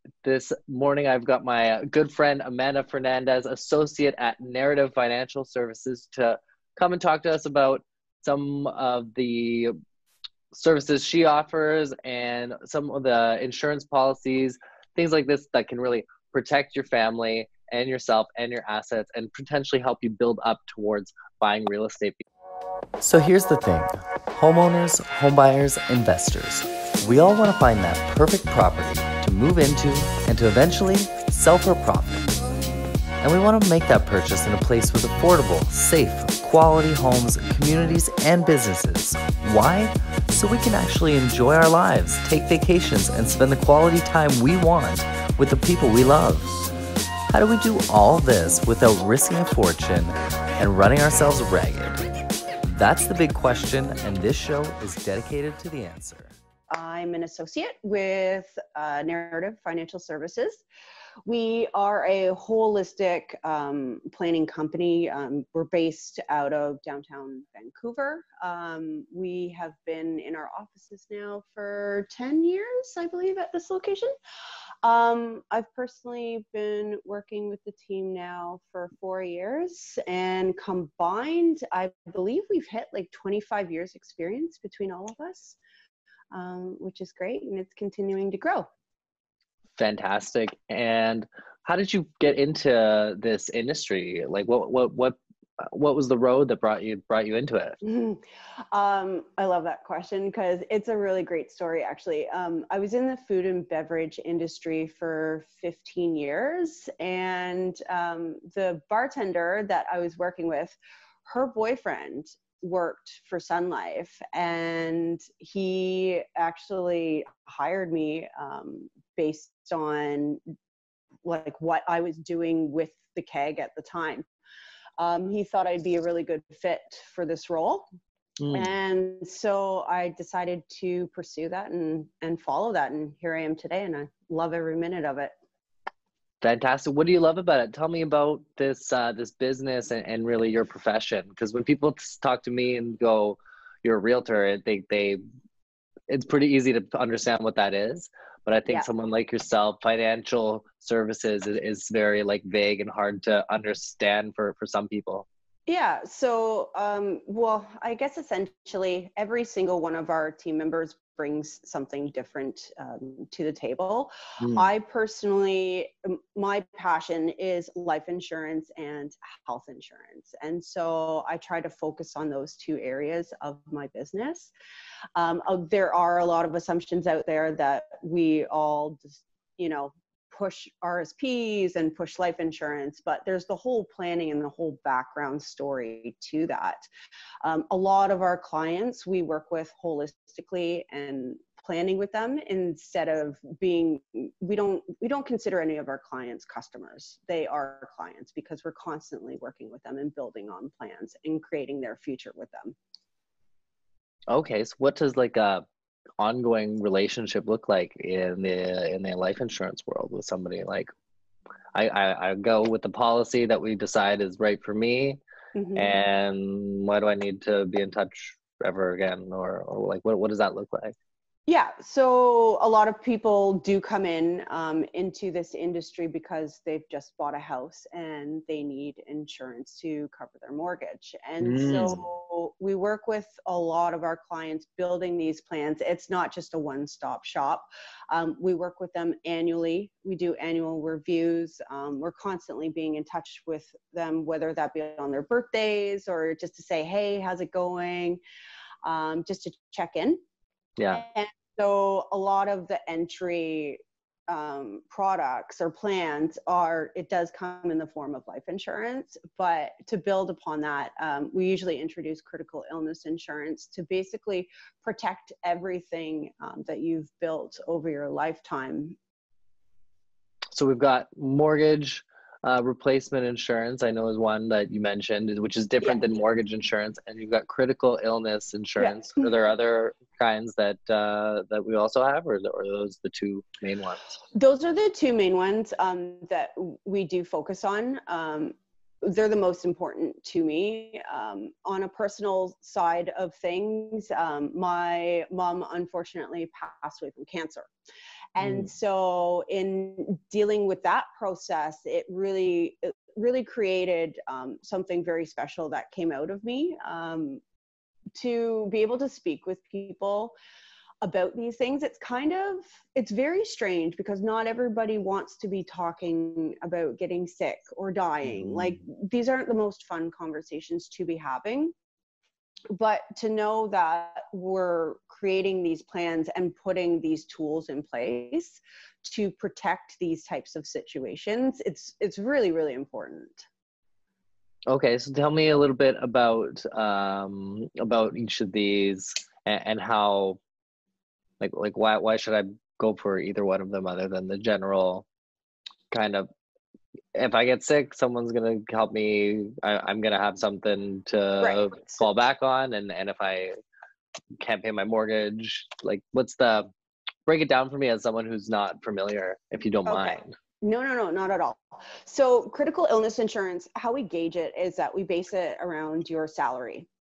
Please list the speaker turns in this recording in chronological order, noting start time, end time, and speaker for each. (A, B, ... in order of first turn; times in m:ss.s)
0:00.2-0:09.8 A
0:10.5-0:22.2 A
0:23.0-0:32.2 B
0:33.2-0:46.7 B
0:47.3-0:52.1 B
0:52.6-0:56.3 B
0:56.7-1:00.6 C
1:01.3-1:14.2 C
1:14.8-1:25.6 C
1:26.3-1:28.7 C
1:29.8-1:37.8 A
1:37.8-2:00.4 C
2:01.2-2:04.2 C
2:05.0-2:07.9 C
2:08.4-2:08.7 A
2:08.5-2:15.3 C
2:16.4-2:25.2 A
2:26.1-2:35.3 A
2:35.7-2:54.5 C
2:44.4-2:44.7 A
2:55.2-3:06.9 C
3:07.4-3:22.8 C
3:24.3-3:25.6 A
3:26.2-3:30.9 A
3:31.8-3:35.2 A
3:35.6-3:36.0 C
3:35.8-3:41.0 A
3:41.5-4:08.2 C
3:51.4-3:52.0 A
4:08.8-4:10.2 C
4:10.8-4:11.0 A
4:10.9-4:29.0 C
4:30.5-4:44.2 A
4:38.8-4:39.3 C
4:44.3-4:57.7 C
4:58.4-5:07.4 C
4:58.4-4:58.7 A
5:08.2-5:10.3 C
5:11.0-5:21.7 C
5:18.3-5:18.8 A
5:22.7-5:33.4 C
5:34.7-5:40.4 A
5:41.4-5:45.1 A
5:45.9-5:46.3 A
5:47.2-5:53.5 A
5:51.4-5:52.0 C
5:54.4-5:56.7 A
5:57.3-6:00.3 A
5:59.9-6:06.9 C